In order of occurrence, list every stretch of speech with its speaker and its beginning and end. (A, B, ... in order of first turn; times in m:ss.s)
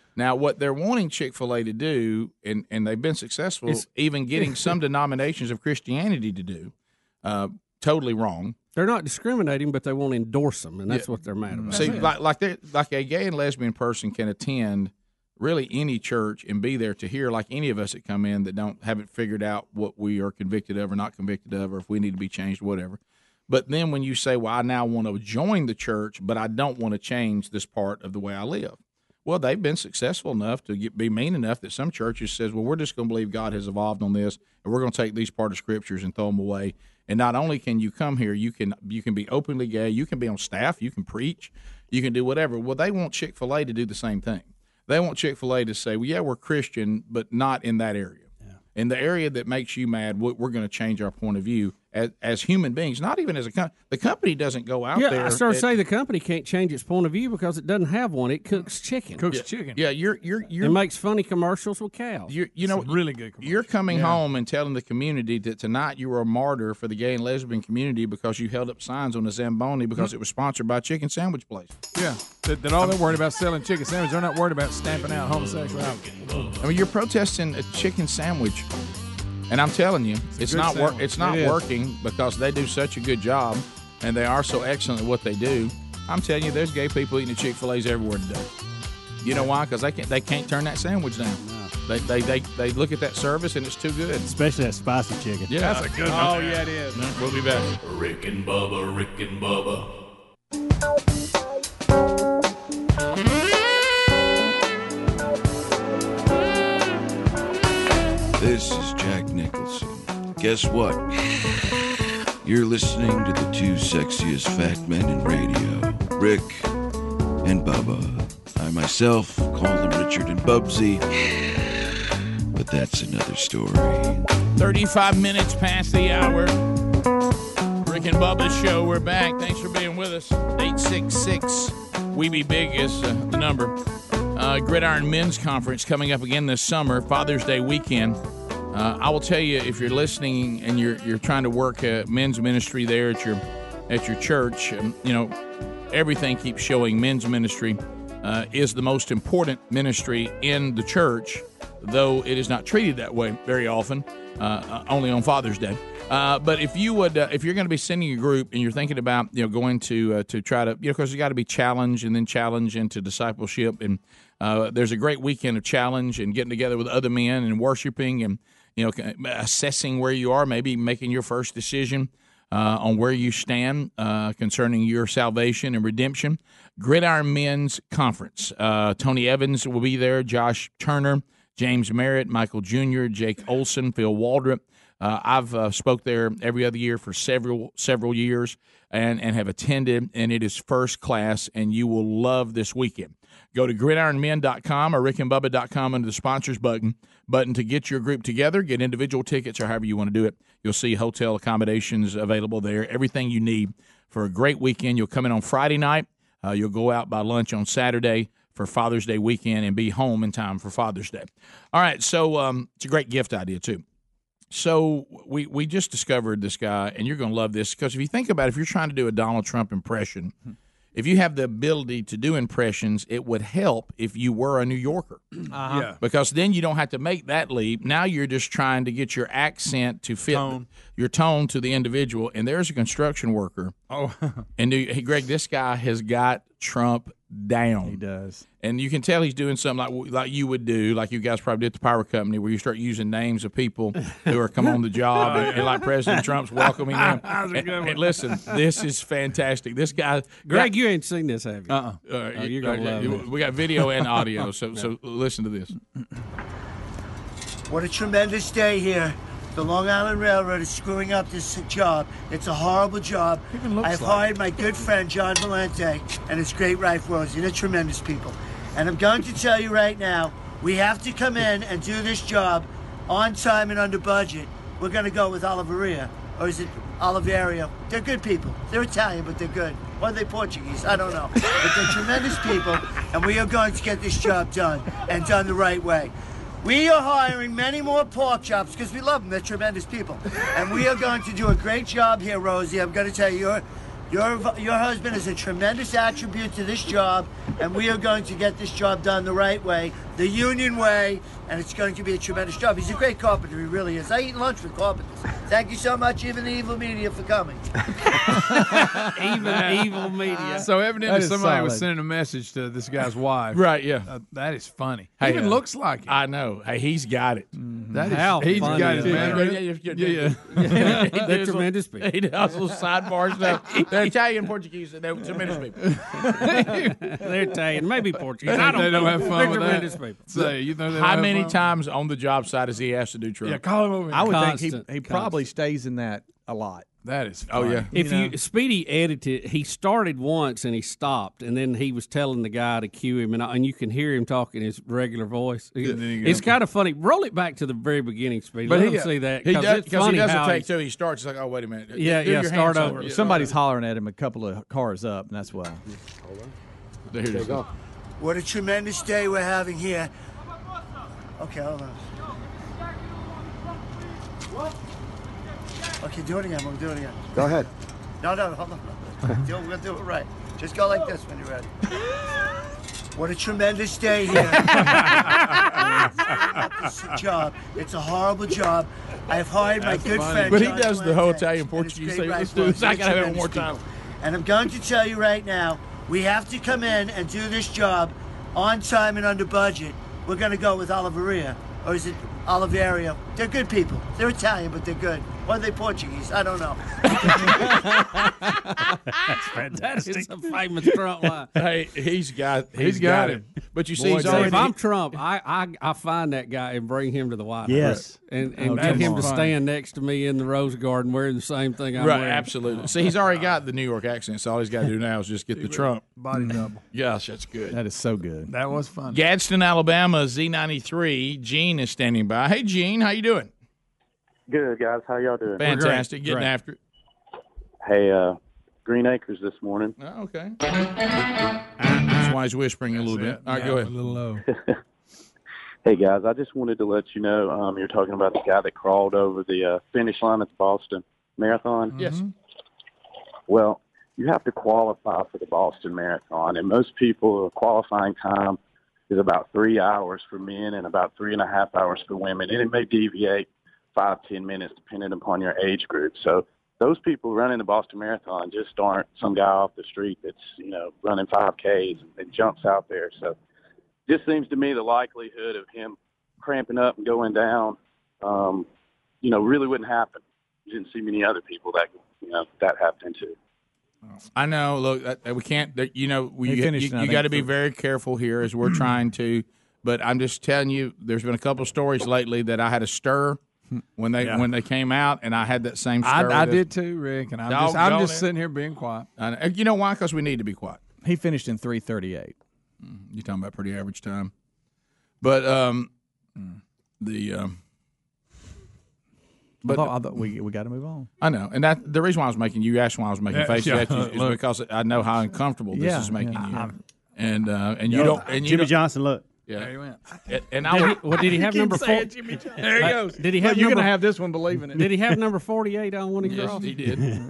0:00.2-0:08.6 A
0:08.8-0:12.1 B
0:11.5-0:12.0 C
0:11.7-0:55.7 A
0:54.9-0:59.3 B
0:59.2-0:59.8 D
0:59.3-1:00.8 A
1:00.6-1:02.3 B
1:02.3-1:11.8 A
1:02.6-1:04.2 D
1:12.0-1:16.1 D
1:12.8-1:13.2 A
1:14.9-1:16.6 E
1:16.6-1:18.7 A
1:19.5-1:28.5 A
1:20.4-1:21.5 C
1:20.6-1:21.0 D
1:29.2-1:34.3 A
1:31.4-1:31.7 F
1:34.2-1:35.6 F
1:35.5-1:37.8 A
1:35.6-1:37.1 D
1:37.8-1:39.9 E
1:48.4-1:51.1 G
1:52.4-1:56.7 G
1:57.4-2:01.0 G
2:02.5-2:04.2 G
2:04.6-2:06.6 A
2:07.8-2:13.8 A
2:14.3-2:18.2 A
2:18.7-2:25.4 A
2:25.9-3:33.8 A
3:34.5-3:40.3 A
3:41.0-3:45.3 A
3:45.6-3:46.0 D
3:46.0-3:53.8 A
3:50.3-3:50.7 D
3:53.9-3:54.5 D
3:54.6-3:58.0 A
3:57.8-3:58.4 C
3:58.6-4:10.7 A
4:05.2-4:05.9 D
4:06.9-4:08.5 D
4:10.5-4:11.8 B
4:11.7-4:12.0 D
4:12.0-4:15.8 A
4:12.4-4:13.3 B
4:17.7-5:07.6 H
4:23.6-4:24.3 D
5:08.4-5:16.2 D
5:08.5-5:10.7 B
5:11.0-5:11.9 C
5:13.5-5:14.1 A
5:15.2-5:17.5 A
5:17.9-5:21.1 D
5:18.0-5:19.4 B
5:18.6-5:26.2 A
5:20.5-5:22.1 B
5:26.0-5:27.0 D
5:26.7-5:30.3 B
5:28.4-5:31.6 D
5:30.4-5:33.6 A
5:33.4-5:34.4 D
5:34.1-5:36.9 C
5:34.2-5:35.4 B
5:37.0-5:38.1 D
5:37.5-5:37.9 A
5:37.9-5:50.7 B
5:38.0-5:38.3 C
5:45.8-5:46.5 D
5:48.6-5:49.1 D
5:49.4-5:53.5 A
5:51.9-5:53.2 B
5:52.9-5:55.8 C
5:57.1-5:57.7 A
5:58.2-6:00.1 H
6:01.4-6:02.0 H
6:06.0-6:07.6 H
6:08.2-6:11.7 H
6:13.2-6:37.5 H
6:14.6-6:16.6 D
6:19.8-6:20.8 D
6:20.4-6:23.8 A
6:39.3-6:40.3 F
6:39.7-6:41.5 B
6:41.6-6:44.7 A
6:42.8-6:43.4 D
6:44.0-6:44.5 C
6:44.2-6:52.5 B
6:47.6-6:48.2 F
6:48.6-6:49.3 C
6:48.7-6:49.5 D
6:52.0-6:56.1 A
6:55.6-6:56.8 D
6:56.3-6:56.7 C
6:56.9-6:57.8 A
6:57.7-6:58.5 C
6:58.5-6:59.2 D
6:59.1-7:03.5 A
7:04.5-7:05.7 I
7:05.6-7:06.8 A
7:07.8-7:10.0 I
7:10.0-7:10.6 A
7:11.9-7:13.9 A
7:12.9-7:14.5 D
7:14.5-7:14.8 I
7:15.8-7:22.0 I
7:21.9-7:22.3 D
7:23.5-7:28.6 I
7:29.1-7:43.4 I
7:44.1-7:48.7 I
7:49.2-7:53.4 I
7:54.3-8:03.4 A
7:56.4-7:57.5 C
8:04.0-8:06.7 A
8:06.0-8:09.1 D
8:07.5-8:08.3 A
8:09.2-8:10.8 A
8:11.0-8:12.4 C
8:12.8-8:14.3 A
8:15.2-8:15.9 A
8:17.0-8:17.6 A
8:19.6-8:20.0 A
8:19.6-8:21.1 C
8:21.2-8:28.7 A
8:23.3-8:24.4 D
8:25.7-8:26.7 C
8:27.9-8:29.3 F
8:29.5-8:29.7 A
8:29.6-8:30.2 D
8:30.2-8:31.1 A
8:30.7-8:34.0 B
8:32.5-8:33.4 D
8:33.3-8:34.9 C
8:34.7-8:36.8 B
8:36.2-8:37.1 A